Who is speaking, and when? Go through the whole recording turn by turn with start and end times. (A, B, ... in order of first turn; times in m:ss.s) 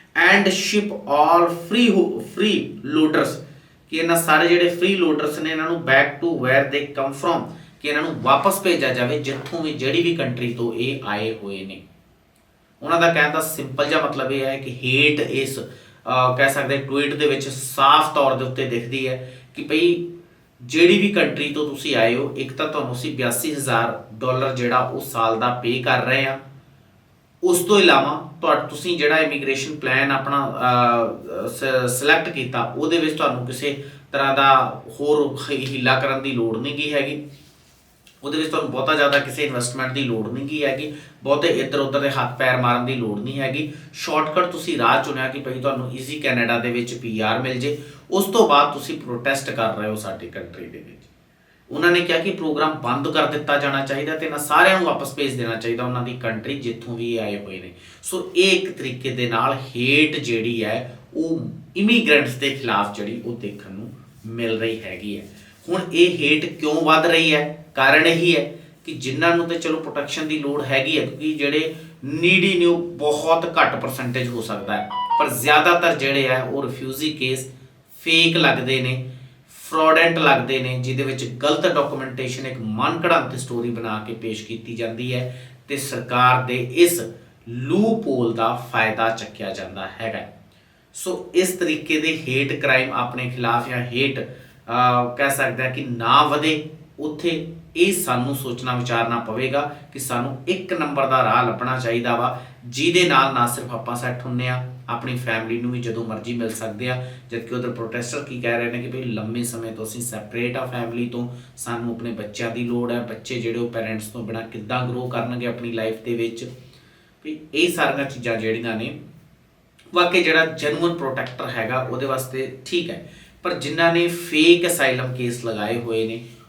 0:00.2-0:11.8 A
0:12.8-0:20.1 A
0:20.6-0:26.4 A
0:27.4-0:37.2 A
0:38.2-0:51.1 A
0:51.7-1:30.3 A
1:30.9-1:56.5 A
1:57.2-1:59.0 A
1:59.9-2:06.2 A